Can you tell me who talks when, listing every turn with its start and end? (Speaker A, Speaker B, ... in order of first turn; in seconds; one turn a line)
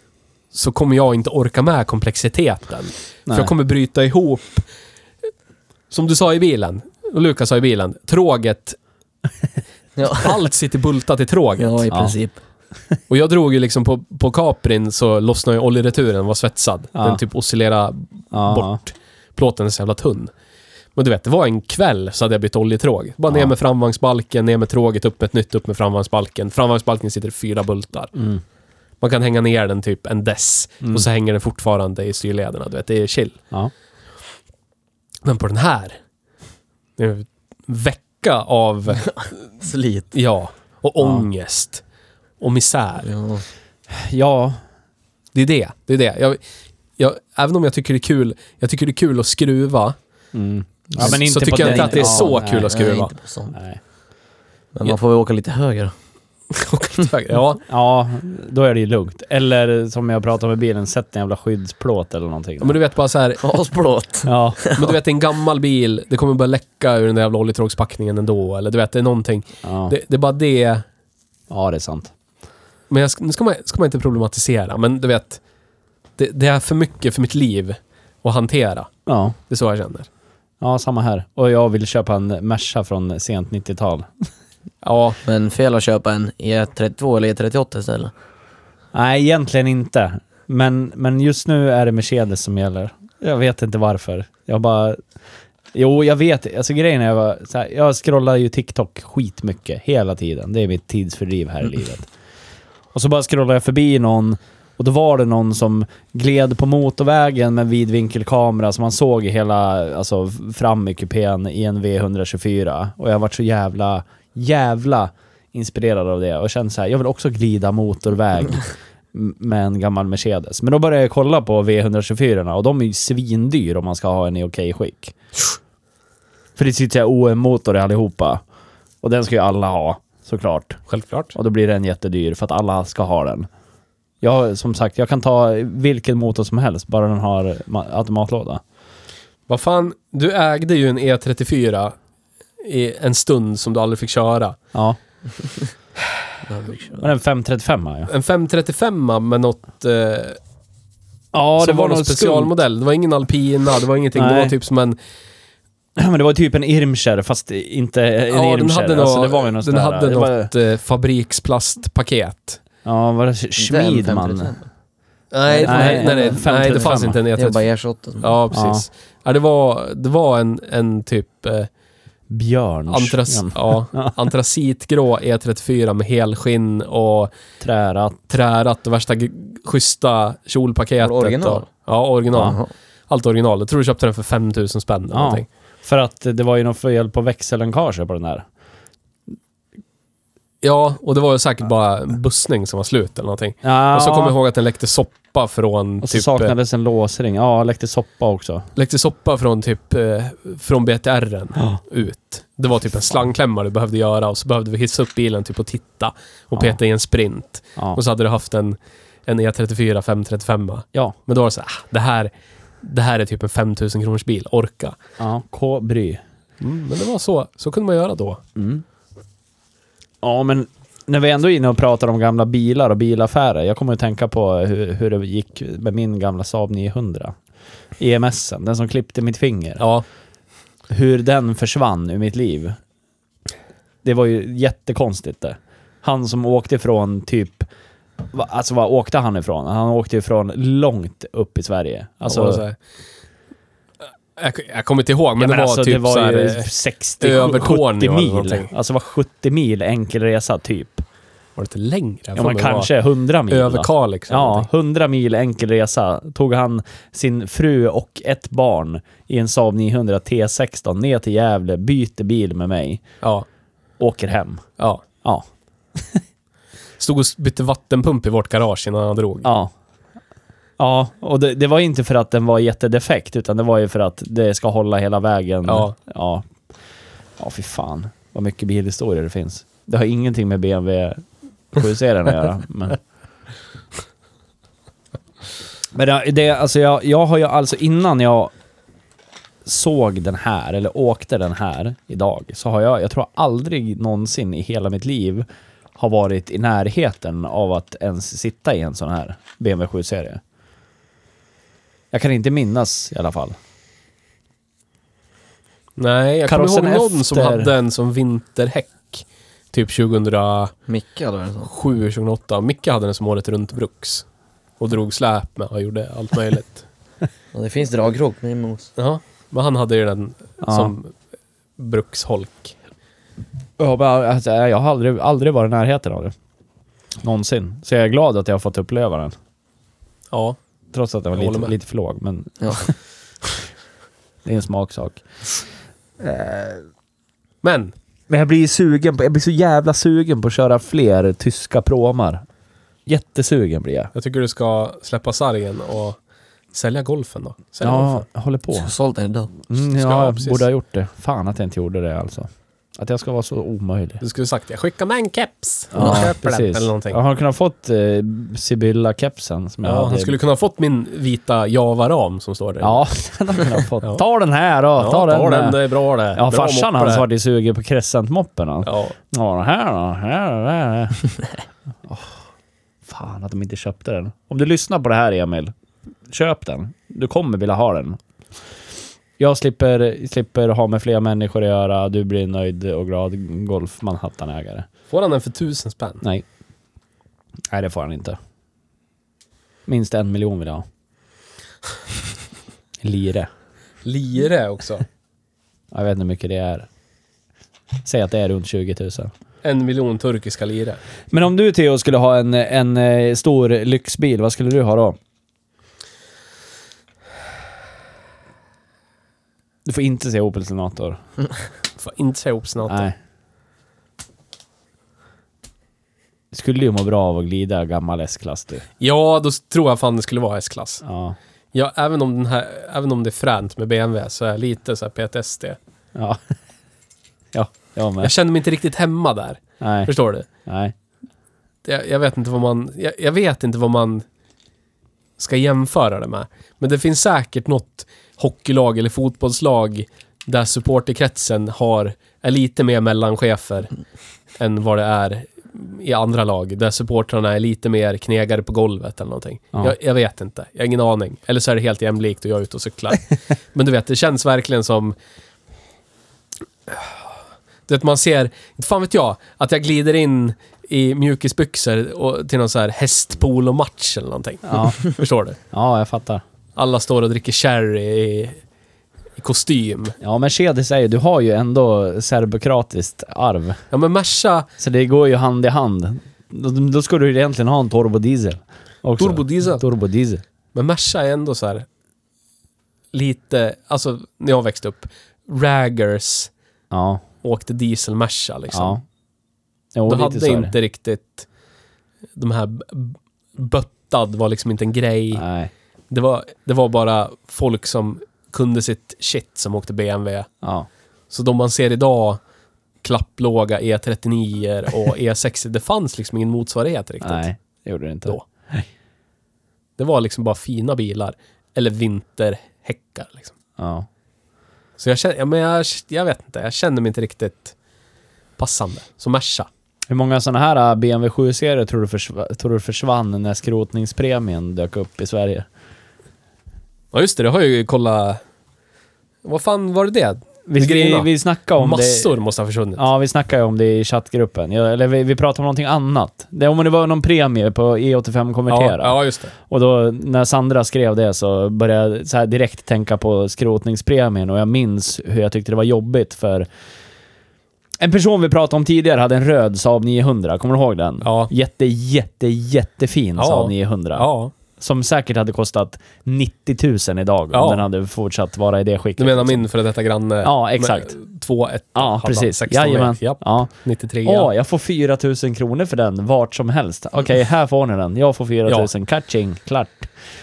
Speaker A: 0.5-4.7
Speaker A: 5.9-8.8
Speaker B: 10.0-10.3
Speaker A: 10.1-11.8
Speaker B: 11.6-12.4
Speaker C: 11.9-12.2
Speaker A: 13.1-20.3
Speaker C: 16.9-17.2
Speaker C: 18.3-18.8
Speaker A: 20.9-28.1
Speaker C: 28.1-28.4
Speaker A: 29.0-33.4
Speaker A: 35.2-36.0
Speaker A: 37.0-39.2
Speaker B: 39.0-40.1
Speaker A: 40.1-41.8
Speaker C: 41.0-41.2
Speaker A: 42.4-43.1
Speaker B: 43.0-43.4
Speaker C: 43.9-44.6
Speaker A: 45.3-46.4
Speaker A: 47.0-50.0
Speaker C: 50.3-52.7
Speaker A: 51.0-53.1
Speaker B: 51.0-53.5
Speaker C: 53.5-53.8
Speaker B: 54.7-55.9
Speaker A: 56.5-57.6
Speaker C: 57.7-62.8
Speaker A: 62.6-63.4
Speaker B: 63.4-64.9
Speaker C: 64.2-64.6
Speaker A: 64.7-70.8
Speaker C: 69.6-69.9
Speaker C: 71.5-72.1
Speaker A: 72.9-75.4
Speaker A: 76.2-78.9
Speaker C: 79.0-79.4
Speaker A: 79.5-80.1
Speaker C: 80.6-84.1
Speaker A: 84.8-85.2
Speaker B: 85.2-88.1
Speaker C: 88.9-95.0
Speaker C: 95.7-102.1
Speaker C: 102.9-125.1
Speaker C: 126.5-128.4
Speaker C: 129.0-130.8
Speaker A: 130.9-131.3
Speaker C: 131.3-133.5
Speaker C: 134.2-138.6
Speaker A: 139.5-141.9
Speaker A: 142.6-144.6
Speaker B: 146.5-147.0
Speaker C: 147.0-148.1
Speaker A: 148.1-150.4
Speaker C: 151.3-152.6
Speaker A: 151.6-155.0
Speaker C: 154.1-154.6
Speaker C: 156.0-160.5
Speaker A: 158.3-162.6
Speaker C: 162.8-164.5
Speaker B: 163.6-164.7
Speaker A: 165.3-167.6
Speaker B: 165.4-168.4
Speaker C: 165.6-167.2
Speaker A: 168.2-171.7
Speaker C: 168.5-168.8
Speaker C: 172.3-174.2
Speaker A: 172.9-177.3
Speaker C: 177.6-178.3
Speaker A: 178.3-185.5
Speaker B: 181.0-181.7
Speaker C: 182.3-182.6
Speaker B: 182.3-182.7
Speaker C: 185.1-188.4
Speaker A: 190.6-196.5
Speaker C: 193.6-194.3
Speaker C: 196.0-198.7
Speaker A: 198.8-212.3
Speaker A: 212.8-215.0
Speaker C: 215.2-216.2
Speaker A: 216.6-218.4
Speaker C: 218.6-218.8
Speaker C: 220.2-227.3
Speaker C: 228.0-229.8
Speaker A: 229.8-230.0
Speaker C: 230.9-232.8
Speaker C: 234.0-237.7
Speaker C: 238.3-242.6
Speaker A: 242.2-242.8
Speaker A: 244.3-246.7
Speaker C: 245.4-251.0
Speaker A: 247.2-248.7
Speaker A: 251.6-252.9
Speaker C: 252.3-263.0
Speaker A: 253.5-254.7
Speaker A: 263.2-263.4
Speaker C: 264.0-264.6
Speaker C: 265.2-266.2
Speaker A: 267.0-269.5
Speaker C: 269.4-269.7
Speaker C: 270.8-276.5
Speaker A: 275.7-275.9
Speaker C: 277.4-283.0
Speaker C: 285.9-288.5
Speaker C: 289.6-295.4
Speaker C: 296.0-300.4
Speaker C: 302.1-303.6
Speaker A: 305.9-310.7
Speaker C: 306.5-307.7
Speaker B: 310.9-311.7
Speaker A: 311.6-314.2
Speaker A: 314.8-316.9
Speaker B: 317.5-318.9
Speaker A: 318.9-321.1
Speaker C: 320.6-320.9
Speaker A: 321.8-322.8
Speaker C: 323.8-326.3
Speaker C: 327.2-329.3
Speaker A: 330.3-330.6
Speaker C: 330.9-332.9
Speaker A: 331.3-331.7
Speaker C: 334.4-335.2
Speaker C: 336.2-336.8
Speaker A: 337.6-337.9
Speaker C: 338.3-342.4
Speaker C: 343.1-344.1
Speaker A: 344.1-346.2
Speaker A: 346.7-348.2
Speaker C: 347.8-348.9
Speaker B: 348.7-349.5
Speaker C: 349.7-354.2
Speaker A: 349.7-350.6
Speaker A: 354.2-357.2
Speaker C: 355.9-360.3
Speaker A: 359.8-363.0
Speaker C: 362.8-371.3
Speaker A: 365.0-367.2
Speaker A: 368.8-369.1
Speaker C: 373.1-375.7
Speaker C: 376.3-378.2
Speaker C: 379.4-384.9
Speaker A: 385.1-386.2
Speaker C: 387.7-388.4
Speaker C: 389.9-390.9
Speaker C: 393.0-393.5
Speaker A: 394.0-395.0
Speaker C: 395.9-396.9
Speaker C: 398.0-399.3
Speaker A: 399.6-401.0
Speaker C: 401.3-405.2
Speaker C: 409.8-411.2
Speaker A: 412.0-413.1
Speaker C: 412.9-413.1
Speaker C: 416.5-418.9
Speaker A: 419.0-421.0
Speaker C: 421.0-421.4
Speaker A: 421.7-425.8
Speaker C: 427.5-428.3
Speaker A: 428.2-430.5
Speaker C: 429.8-430.1
Speaker C: 430.6-430.9
Speaker A: 431.8-434.2
Speaker A: 435.4-443.9
Speaker A: 444.6-455.1
Speaker A: 456.9-457.1
Speaker A: 457.9-465.6
Speaker C: 464.7-465.0
Speaker C: 465.7-466.4
Speaker A: 466.8-468.6
Speaker A: 469.4-470.1
Speaker C: 470.2-473.8
Speaker A: 473.9-474.7
Speaker C: 474.8-480.4
Speaker A: 479.2-479.8
Speaker A: 480.7-481.9
Speaker A: 483.1-486.5
Speaker C: 486.9-487.2
Speaker A: 487.4-489.0
Speaker C: 488.7-489.0
Speaker C: 489.9-490.7
Speaker A: 490.1-491.4
Speaker A: 492.4-495.4
Speaker C: 495.3-495.7
Speaker A: 496.1-500.5
Speaker C: 500.6-500.9
Speaker A: 501.3-502.4
Speaker A: 503.0-507.4
Speaker C: 507.2-508.9
Speaker A: 510.0-513.5
Speaker C: 513.8-514.1
Speaker A: 515.0-517.7
Speaker A: 518.6-519.7
Speaker C: 520.1-525.7
Speaker A: 527.1-528.4
Speaker A: 529.4-533.0
Speaker C: 530.7-532.3
Speaker C: 533.0-546.7
Speaker A: 538.7-539.5
Speaker C: 548.0-559.6
Speaker A: 551.2-551.5
Speaker A: 553.4-554.5
Speaker A: 557.5-557.8
Speaker A: 559.2-564.5
Speaker C: 560.4-561.2
Speaker C: 561.9-563.7
Speaker C: 564.2-570.1